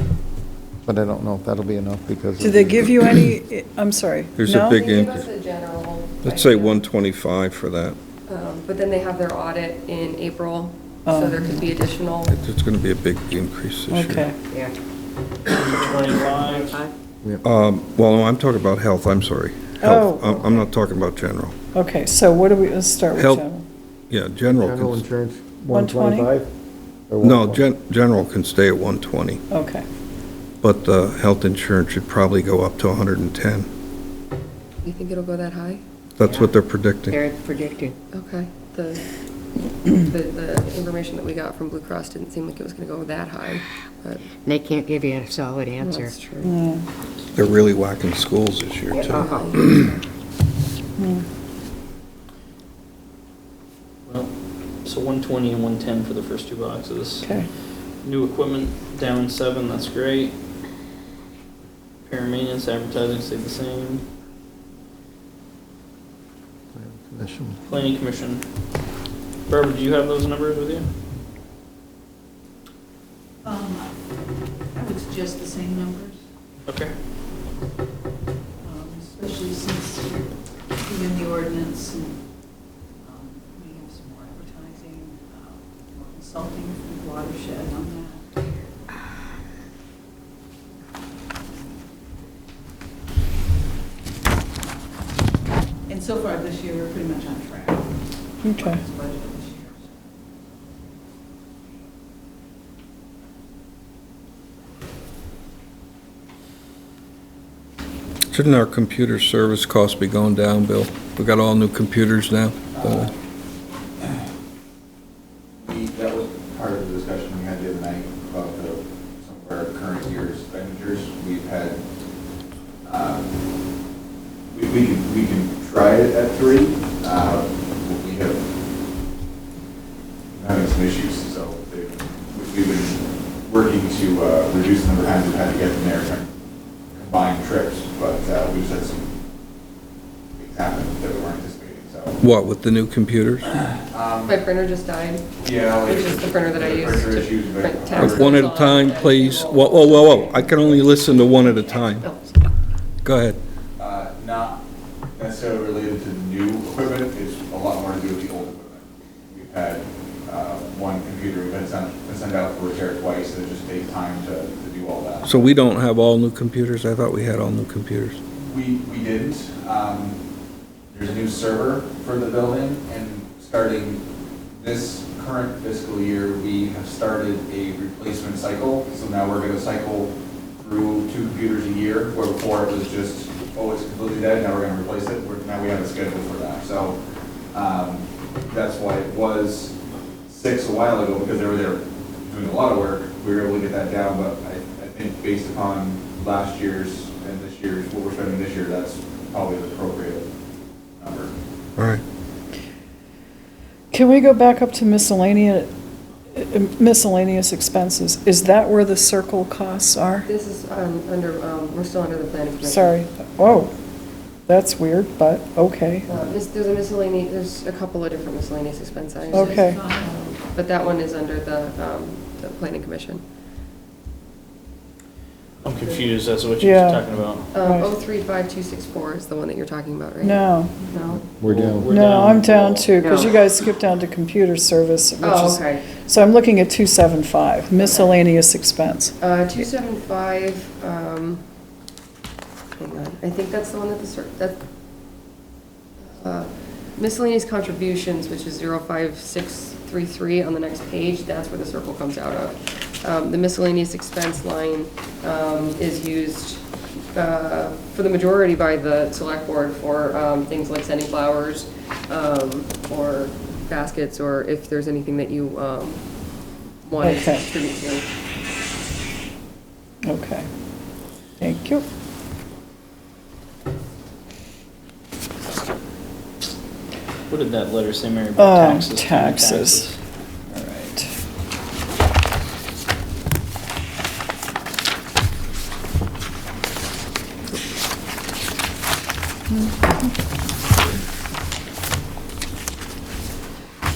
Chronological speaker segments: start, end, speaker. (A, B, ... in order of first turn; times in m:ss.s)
0:00.8-0:02.8 A
0:02.4-0:04.8 B
0:04.4-0:05.2 C
0:04.6-0:06.8 D
0:06.2-0:08.0 C
0:08.3-0:12.3 D
0:11.0-0:11.7 B
0:12.3-0:14.2 C
0:13.9-0:14.4 B
0:15.5-0:16.8 E
0:16.3-0:16.9 F
0:17.4-0:21.5 C
0:19.8-0:20.4 B
0:21.7-0:23.6 B
0:23.1-0:23.4 C
0:24.1-0:25.0 C
0:24.6-0:26.4 A
0:25.7-0:26.4 B
0:27.1-0:27.6 A
0:27.2-0:29.4 C
0:29.5-0:29.8 B
0:30.6-0:33.7 C
0:34.8-0:35.8 D
0:36.2-0:37.2 C
0:36.2-0:36.6 F
0:37.1-0:38.0 F
0:38.1-0:39.1 D
0:39.9-0:44.4 D
0:44.4-0:46.1 F
0:45.8-0:46.5 D
0:46.4-0:46.8 B
0:47.3-0:49.8 C
0:48.9-0:49.4 F
0:48.9-0:50.0 D
0:51.0-0:51.2 B
0:54.0-0:57.3 E
0:57.2-0:57.5 B
0:58.0-1:00.3 E
1:02.0-1:04.0 E
1:06.8-1:07.6 A
1:07.7-1:08.4 E
1:09.5-1:10.8 E
1:13.4-1:13.9 G
1:14.7-1:16.2 G
1:16.7-1:16.9 E
1:18.6-1:22.2 G
1:23.0-1:28.2 G
1:35.9-1:37.9 G
1:38.4-1:38.8 B
1:38.5-1:39.9 G
1:48.3-1:53.1 C
1:52.7-1:53.1 H
1:55.6-2:01.8 H
2:02.8-2:03.3 H
2:04.5-2:08.4 H
2:10.3-2:16.3 H
2:16.9-2:19.1 H
2:20.4-2:22.2 H
2:22.2-2:23.5 C
2:23.7-2:24.4 H
2:24.2-2:32.2 D
2:25.4-2:28.3 H
2:28.0-2:32.1 C
2:33.0-2:33.4 C
2:33.8-2:34.6 H
2:35.1-2:45.5 H
2:45.2-2:48.2 C
2:48.4-2:50.2 H
2:50.9-2:54.0 H
2:54.5-3:07.0 H
3:07.5-3:09.7 H
3:10.3-3:20.3 H
3:21.0-3:21.3 H
3:21.8-3:22.0 C
3:23.9-3:25.7 B
3:26.3-3:30.3 B
3:30.2-3:33.0 D
3:32.6-3:33.7 B
3:34.4-3:36.1 B
3:36.1-3:43.2 D
3:39.2-3:40.2 G
3:39.3-3:39.8 B
3:45.6-3:47.4 E
3:46.6-3:47.0 B
3:47.5-3:51.3 D
3:47.6-3:47.9 B
3:50.2-3:50.8 B
3:51.3-3:51.9 A
3:51.4-3:52.9 E
3:51.9-3:59.1 B
3:53.0-3:53.4 D
3:55.2-3:55.9 D
3:57.8-3:58.2 D
3:59.2-4:01.4 D
4:02.8-4:04.6 D
4:06.0-4:26.0 D
4:26.8-4:28.0 D
4:27.0-4:27.4 B
4:30.0-4:30.5 B
4:31.4-4:31.8 B
4:37.3-4:39.9 E
4:38.4-4:40.0 B
4:40.5-4:41.1 B